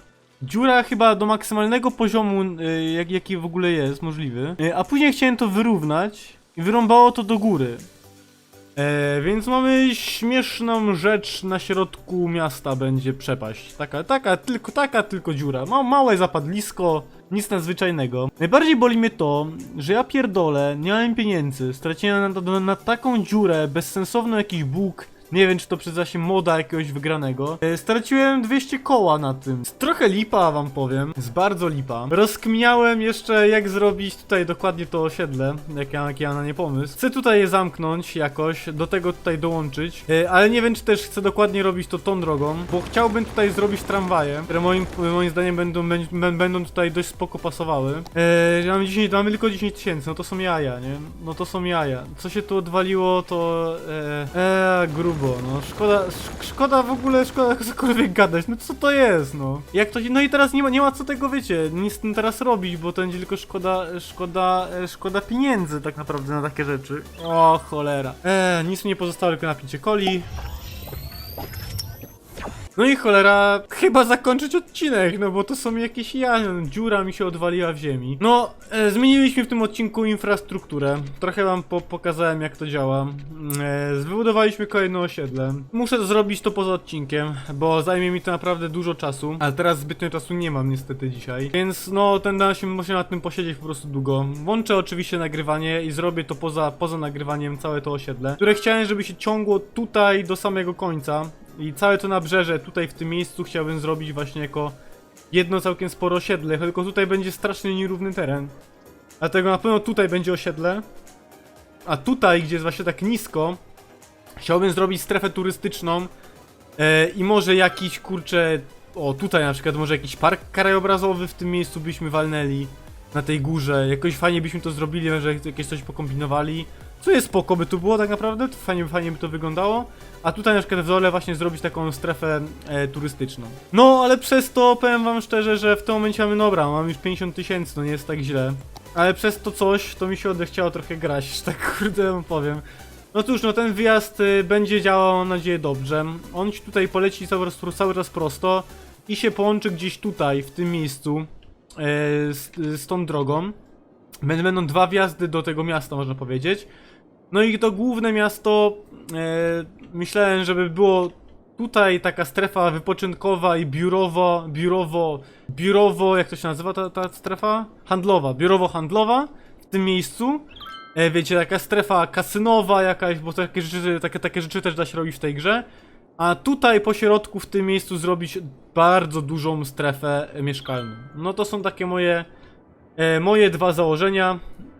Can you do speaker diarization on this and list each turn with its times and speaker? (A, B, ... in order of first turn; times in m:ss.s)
0:00.4-0:07.9 A
0:08.8-1:10.3 A
1:12.8-1:44.8 A
1:45.3-1:48.6 A
1:49.2-1:50.8 A
1:51.8-1:53.6 A
1:54.4-1:56.1 A
1:56.8-2:33.6 A
2:34.2-2:36.7 A
2:37.3-2:55.7 A
2:56.2-3:02.3 A
3:03.0-3:04.4 A